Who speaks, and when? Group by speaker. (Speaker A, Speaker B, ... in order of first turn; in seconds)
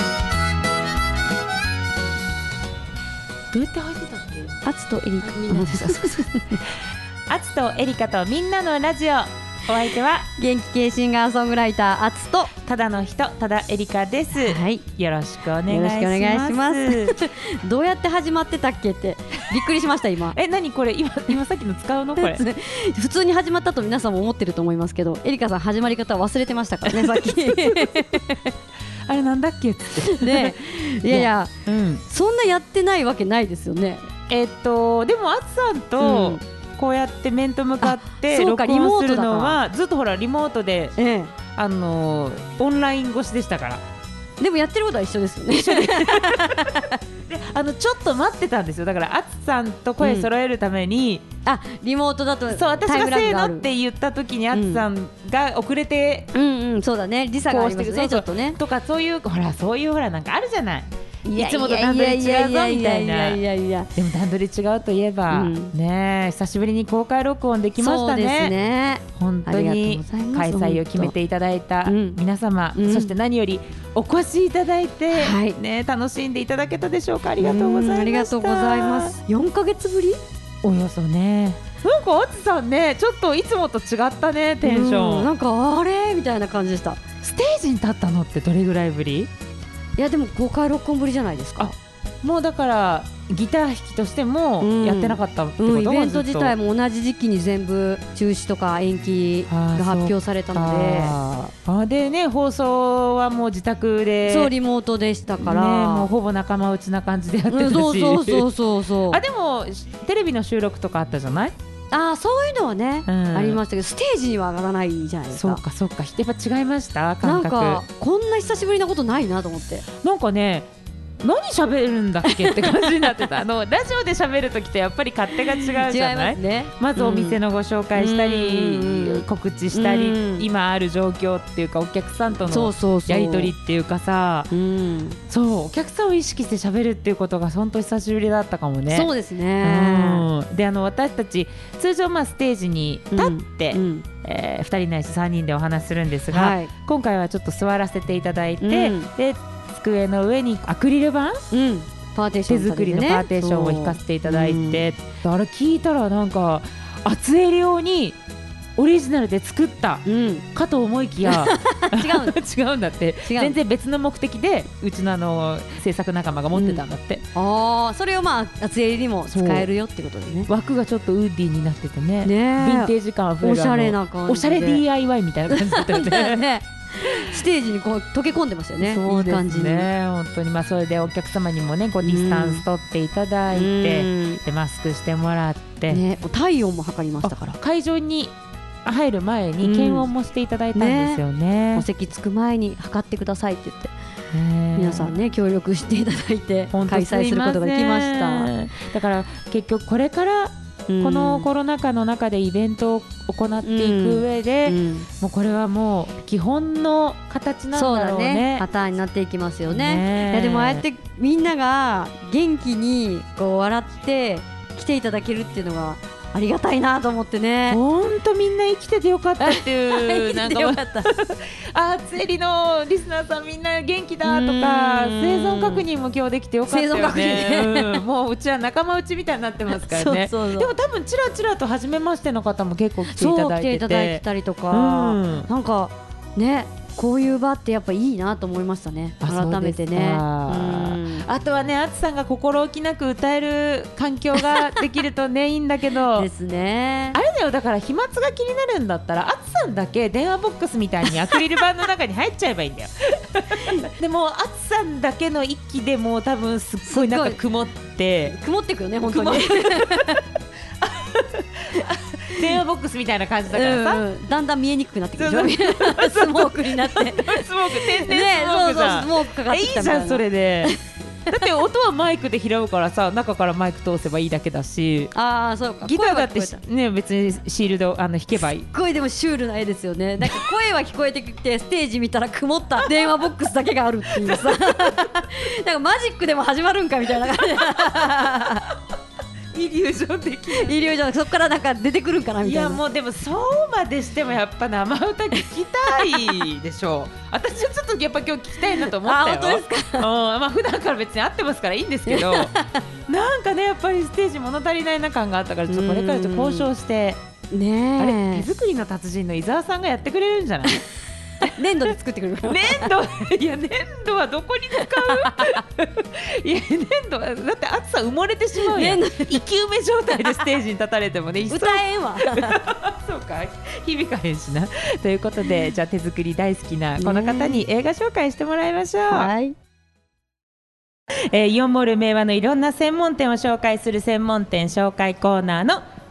Speaker A: 3.5-4.5, 5.3-6.1, 7.3-10.3, 12.6-17.1, 20.3-22.4, 26.9-28.1, 29.1-32.0, 34.3-41.0, 41.5-43.8, 45.5-51.2, 52.5-56.3, 57.5-63.4, 64.0-68.5, 69.2-79.1, 80.6-85.3, 87.2-89.3, 91.6-96.5, 99.5-104.5, 105.4-108.4, 109.1-111.5, 113.1-113.6, 115.3-117.8, 120.0-120.7, 121.2-134.5, 135.3-139.1, 139.6-151.5, 152.5-158.2, 158.8-167.2, 169.3-169.7, 170.5-176.4, 178.8-186.0, 187.2-188.3, 188.8-191.8, 194.3-195.2, 196.7-208.6, 209.7-210.8, 217.7-235.5, 239.2-246.3, 247.2-258.4, 259.1-260.2, 260.8-264.0, 265.2-270.7, 271.3-275.1, 275.8-278.7, 284.2-285.0, 287.6-288.0, 289.5-290.7, 292.4-302.5, 303.1-307.2, 308.0-310.9, 312.5-329.3, 331.3-335.8
Speaker B: 4.6-6.6, 10.4-12.5, 14.3-14.8, 15.7-20.4, 22.2-28.5, 30.1-31.5, 32.1-34.1, 36.0-36.4, 37.8-39.6, 41.0-41.3, 44.4-47.0, 50.0-50.3, 51.5-53.7, 54.5-54.9, 56.3-58.6, 61.2-63.9, 65.3-65.7, 67.8-71.1, 71.9-72.2, 72.8-73.1, 75.1-75.6, 77.4-80.2, 84.6-87.0, 90.0-91.7, 94.6-101.2, 104.3-106.1, 107.5-109.2, 111.9-115.6, 117.2-119.8, 122.3-122.9, 125.5-127.4, 128.0-130.5, 132.5-133.5, 134.5-135.2, 138.9-140.3, 143.1-144.1, 146.3-146.7, 148.6-149.1, 151.5-154.8, 160.1-160.4, 161.2-162.3, 163.3-163.6, 166.5-166.8, 167.3-170.5, 172.2-174.8, 175.5-179.9, 182.0-182.6, 183.5-184.4, 185.9-187.6, 189.6-190.1, 190.8-191.2, 191.8-193.9, 194.8-198.5, 200.9-201.5, 203.6-205.1, 207.7-217.8, 219.4-221.1, 224.2-225.8, 226.7-228.0, 229.7-230.7, 233.1-241.2, 246.2-247.2, 256.9-257.4, 258.3-260.2, 263.5-270.8, 275.1-276.6, 278.7-288.7, 290.5-292.8, 299.0-300.1, 302.1-302.8, 305.7-306.7, 307.5-308.4, 311.4-312.9, 314.9-315.6, 318.7-319.4, 321.5-322.6, 327.0-327.6, 329.1-329.6